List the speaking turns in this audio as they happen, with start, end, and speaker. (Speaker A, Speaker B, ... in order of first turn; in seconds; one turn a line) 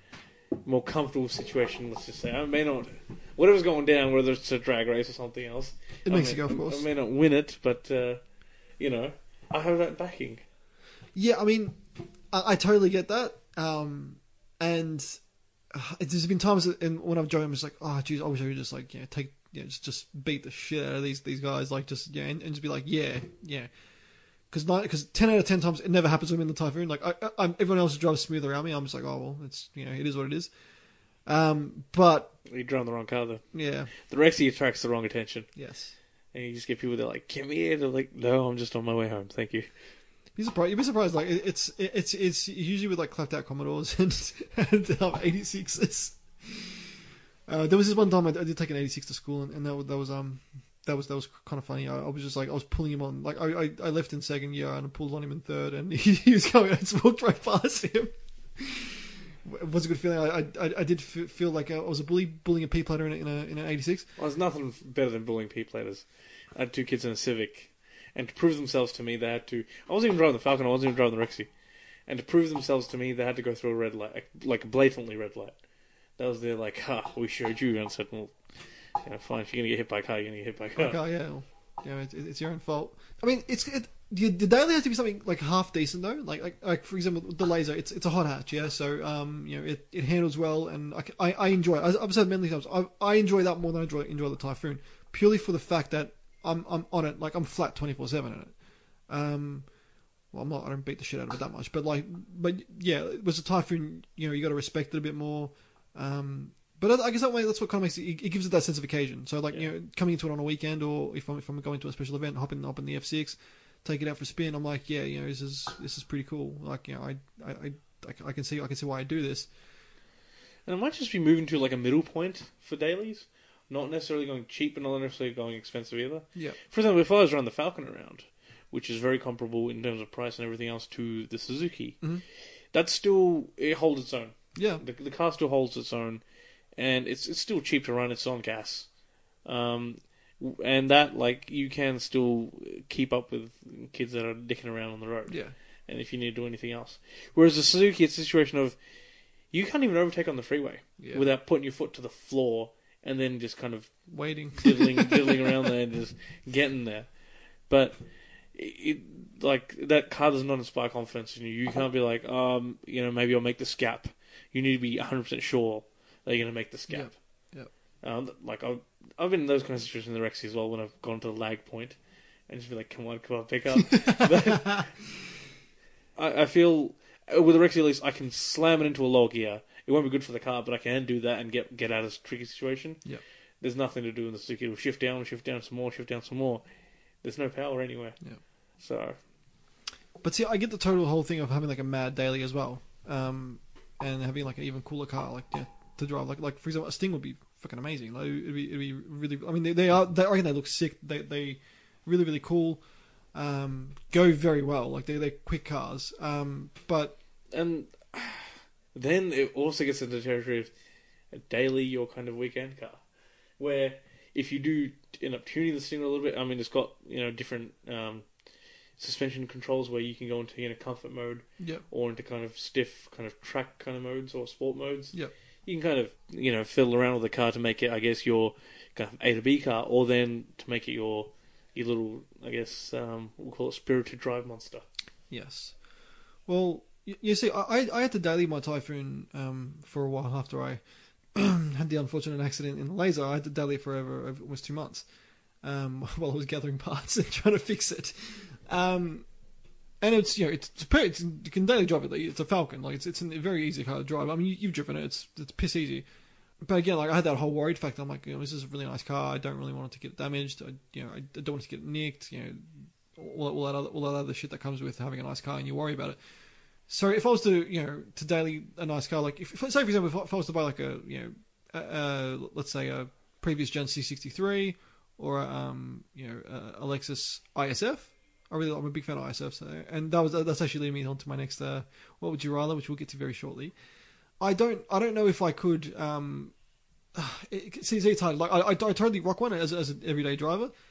Speaker A: 0.7-8.2
Speaker B: 6.1-6.8
Speaker A: 8.8-10.4
Speaker B: 11.2-11.8
Speaker B: 12.3-15.2
Speaker B: 15.7-23.7
Speaker B: 24.5-30.5
Speaker B: 31.3-32.3
Speaker A: 32.5-33.4
Speaker B: 33.5-33.9
Speaker A: 34.0-35.5
Speaker B: 35.6-35.9
Speaker A: 36.3-39.7
Speaker B: 40.4-46.8
Speaker B: 47.5-64.1
Speaker A: 64.2-66.0
Speaker A: 66.6-71.5
Speaker A: 72.1-75.6
Speaker A: 76.2-78.3
Speaker A: 79.0-81.0
Speaker B: 80.8-98.5
Speaker B: 99.1-99.7
Speaker B: 100.3-119.5
Speaker A: 120.7-132.0
Speaker A: 132.7-136.2
Speaker B: 134.6-134.8
Speaker A: 136.8-138.9
Speaker A: 139.4-148.8
Speaker B: 145.3-145.5
Speaker A: 149.5-154.0
Speaker B: 151.0-151.3
Speaker B: 154.1-155.5
Speaker A: 154.6-157.1
Speaker A: 157.7-158.0
Speaker A: 158.5-167.2
Speaker B: 166.9-167.7
Speaker A: 168.0-172.0
Speaker A: 172.5-174.9
Speaker B: 173.8-174.8
Speaker A: 176.2-183.0
Speaker A: 183.6-186.6
Speaker A: 187.2-188.2
Speaker A: 188.8-189.2
Speaker B: 190.2-202.8
Speaker B: 203.3-207.2
Speaker A: 207.5-210.7
Speaker A: 211.3-213.0
Speaker A: 213.6-218.3
Speaker A: 219.0-234.9
Speaker B: 221.6-221.8
Speaker B: 235.3-235.7
Speaker B: 236.5-240.8
Speaker B: 241.3-245.1
Speaker B: 245.6-249.3
Speaker B: 250.0-256.1
Speaker B: 256.6-266.2
Speaker B: 266.9-283.7
Speaker B: 284.4-286.5
Speaker B: 287.1-290.7